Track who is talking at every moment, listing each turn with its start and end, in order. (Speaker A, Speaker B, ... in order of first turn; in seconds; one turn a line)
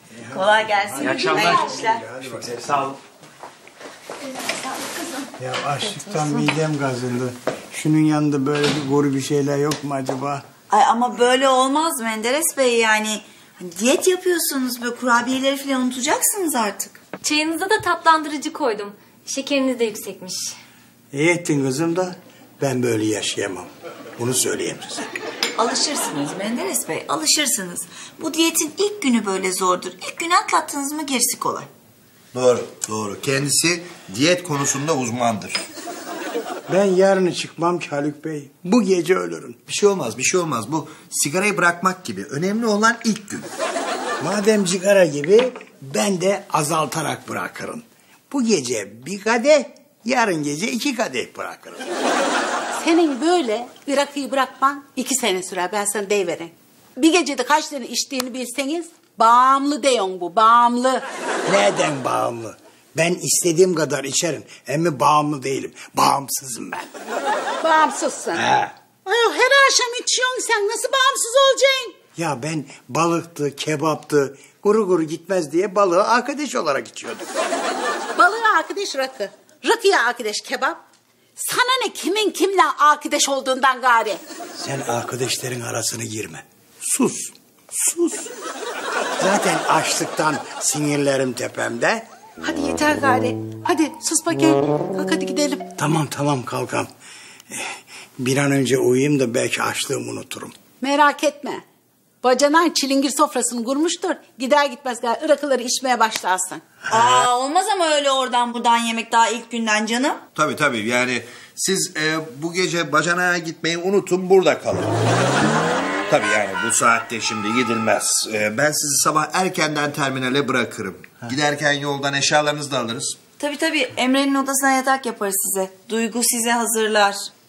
Speaker A: 0.2-2.5
Speaker B: 0.3-2.0
Speaker C: 1.0-3.0
Speaker A: 5.4-10.4
Speaker B: 10.7-17.0
Speaker D: 17.2-20.5
Speaker A: 21.1-25.1
Speaker B: 25.6-31.7
Speaker E: 32.3-35.6
Speaker A: 36.7-39.6
Speaker E: 39.7-43.5
Speaker A: 44.2-51.8
Speaker F: 52.8-61.0
Speaker A: 61.5-67.0
Speaker F: 67.6-68.5
Speaker A: 68.3-68.7
Speaker F: 69.0-72.0
Speaker A: 72.2-77.3
Speaker F: 78.2-80.8
Speaker F: 81.4-84.2
Speaker A: 84.6-88.3
Speaker A: 89.2-92.0
Speaker F: 92.4-95.7
Speaker A: 95.8-96.9
Speaker A: 97.5-100.5
Speaker F: 100.8-101.6
Speaker F: 102.2-106.6
Speaker B: 106.9-110.3
Speaker E: 110.4-115.0
Speaker E: 116.1-123.2
Speaker B: 123.4-127.3